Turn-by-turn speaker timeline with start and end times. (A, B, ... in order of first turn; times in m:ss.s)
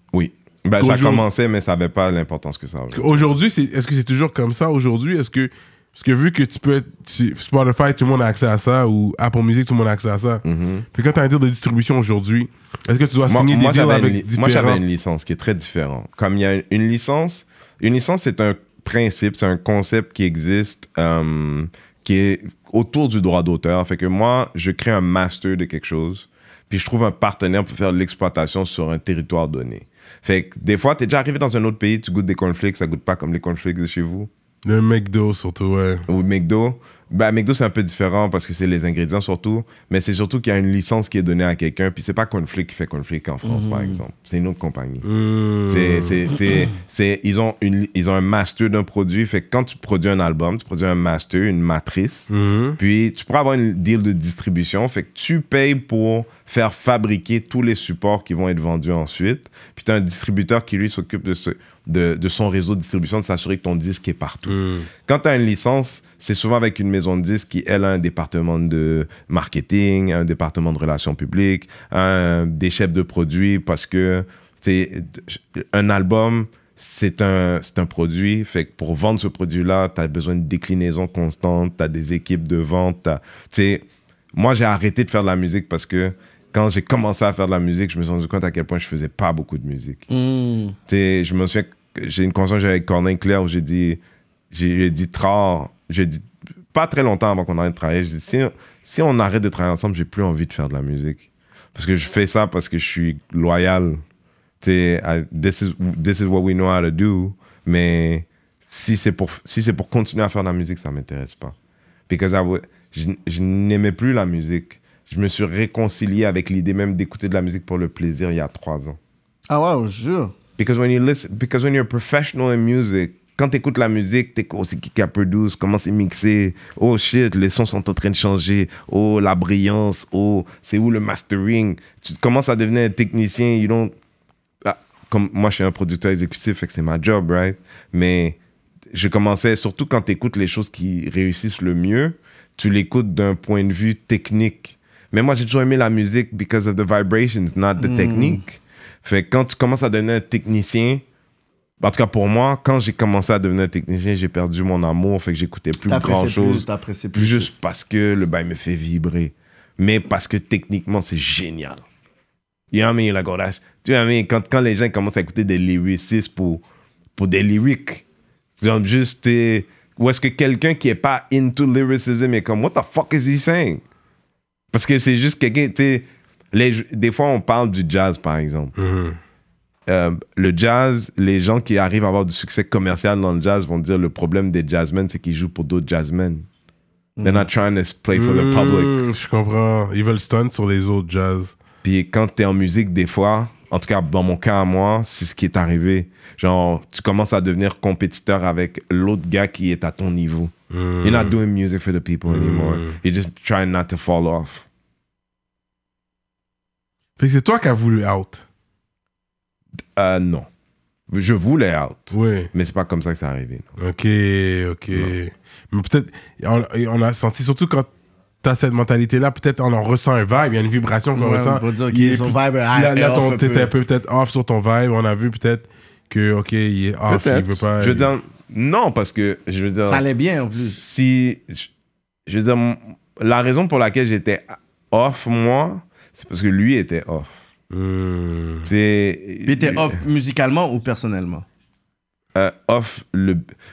0:00.1-0:03.3 A
0:00.8-0:01.2 B
0:02.9-0:10.4 B
0:10.4-0:10.8 A
0:10.9-0:14.8 B
0:13.3-0:34.3 A
0:34.6-0:36.0 B
0:36.1-0:45.0 A
0:43.4-0:44.0 C
0:45.0-0:46.3 B
0:45.7-1:30.0 A
0:52.3-0:52.8 B
1:04.5-1:04.9 B
1:30.1-1:30.8 C
1:30.9-1:44.0 A
1:44.6-1:51.5 A
1:52.1-1:59.0 A
1:59.5-2:00.3 C
2:00.6-2:13.9 A
2:14.6-2:18.4 A
2:18.9-2:31.0 A
2:27.8-2:28.4 C
2:31.8-2:41.8 A
2:35.9-2:37.5 C
2:42.7-2:46.6 A
2:47.2-2:48.0 A
2:48.6-2:53.8 A
2:54.7-2:58.7 A
2:58.8-2:59.2 B
2:59.9-3:06.4 A
3:07.2-3:07.4 C
3:07.2-3:08.9 A
3:08.1-3:11.6 B
3:11.8-3:24.6 A
3:20.7-3:21.3 B
3:22.3-3:23.0 B
3:27.2-3:28.4 B
3:30.0-3:30.5 A
3:31.1-3:33.7 A
3:32.1-3:32.5 B
3:33.8-3:37.9 B
3:38.4-3:48.1 B
3:41.1-3:43.7 C
3:47.1-3:51.7 A
3:49.9-3:50.8 C
3:52.3-3:57.4 A
3:57.7-3:58.7 B
3:58.6-4:00.0 A
3:59.4-4:01.4 C
4:02.3-4:03.4 A